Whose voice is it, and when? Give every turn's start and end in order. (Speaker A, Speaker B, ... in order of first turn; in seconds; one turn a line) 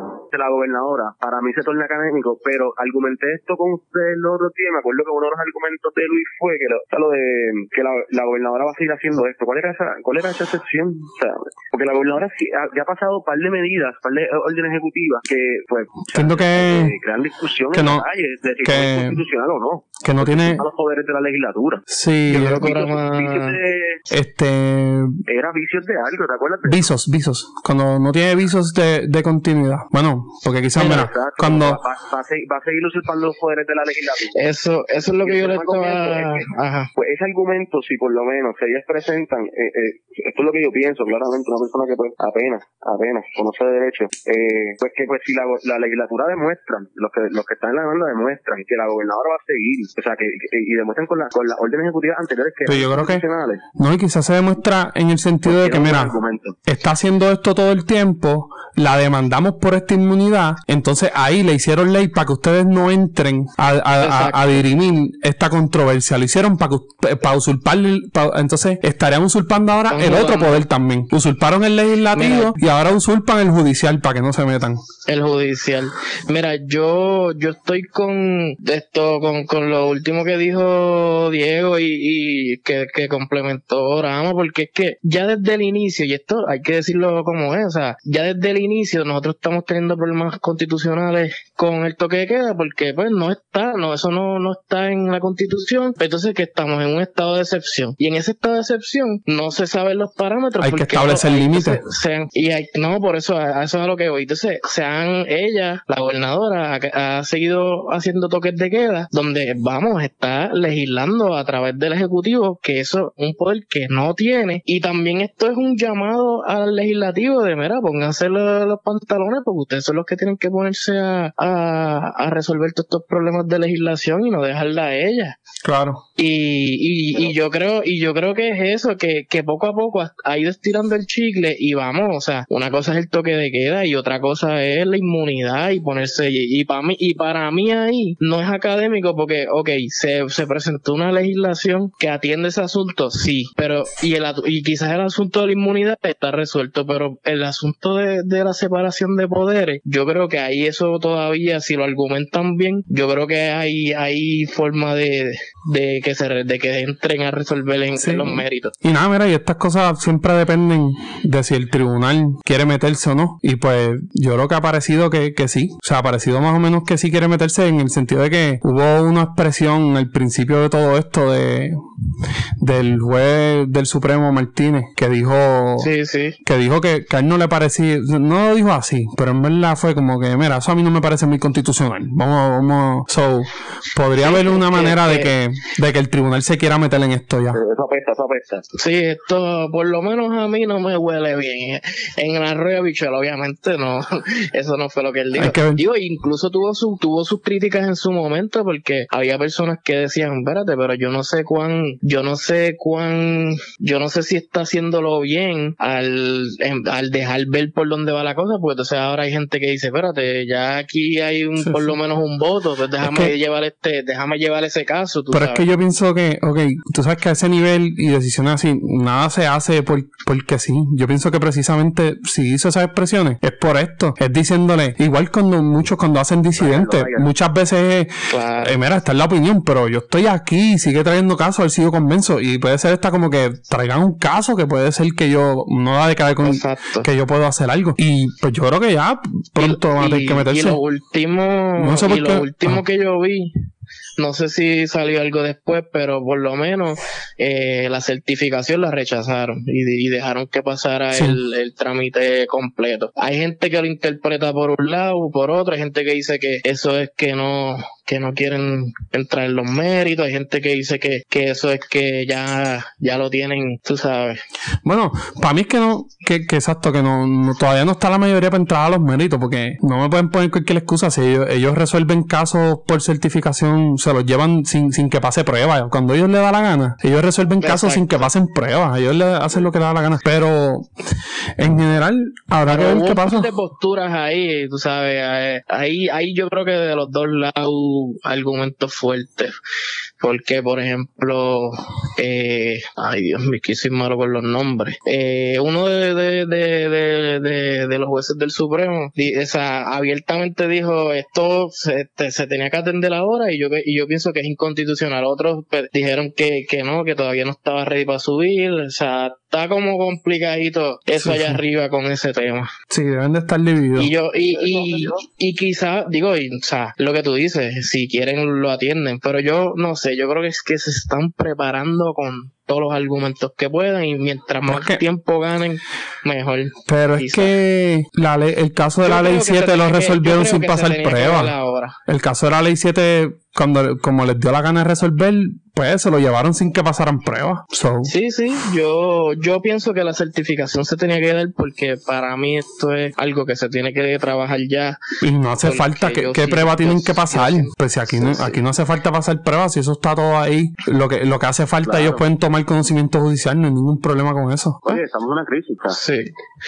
Speaker A: 0.3-21.9
Speaker B: 16.1-16.9
Speaker B: 17.7-18.1
Speaker B: 18.6-19.2
Speaker B: 20.0-20.6
Speaker B: 21.9-22.6
Speaker C: 22.3-23.6
Speaker A: 22.5-24.0
Speaker B: 24.1-25.2
Speaker A: 25.3-26.9
Speaker B: 26.6-31.8
Speaker C: 30.8-31.1
Speaker A: 30.8-34.5
Speaker C: 34.3-36.9
Speaker A: 35.2-53.6
Speaker B: 52.7-53.2
Speaker B: 53.8-74.8
Speaker A: 55.4-56.6
Speaker C: 64.0-64.6
Speaker C: 69.9-70.6
Speaker C: 72.1-72.6
Speaker C: 75.1-125.4
Speaker B: 100.6-101.8
Speaker B: 125.6-126.0
Speaker C: 126.2-158.7
Speaker B: 158.0-171.8
Speaker B: 172.6-175.9
Speaker C: 175.8-176.4
Speaker B: 176.4-187.6
Speaker C: 184.1-185.3
Speaker A: 187.5-188.6
Speaker C: 188.7-215.6
Speaker B: 195.3-195.8
Speaker B: 211.6-212.0
Speaker B: 213.0-213.3
Speaker B: 215.3-240.8
Speaker A: 226.6-227.3
Speaker C: 228.3-228.8
Speaker C: 236.4-237.1
Speaker C: 239.6-243.5
Speaker B: 241.8-242.8
Speaker C: 244.2-264.4
Speaker B: 251.1-251.4
Speaker B: 264.8-283.5
Speaker C: 277.6-278.3
Speaker C: 282.6-289.5
Speaker C: 290.2-312.7
Speaker B: 311.2-311.6
Speaker B: 312.9-314.1
Speaker C: 313.9-327.5
Speaker A: 314.5-315.2
Speaker B: 324.7-325.0
Speaker B: 326.9-331.5
Speaker C: 329.0-332.0
Speaker B: 332.1-338.1
Speaker C: 338.0-345.0
Speaker B: 345.2-354.9
Speaker C: 345.6-348.5
Speaker A: 351.8-352.2
Speaker A: 354.8-356.0
Speaker C: 355.9-356.3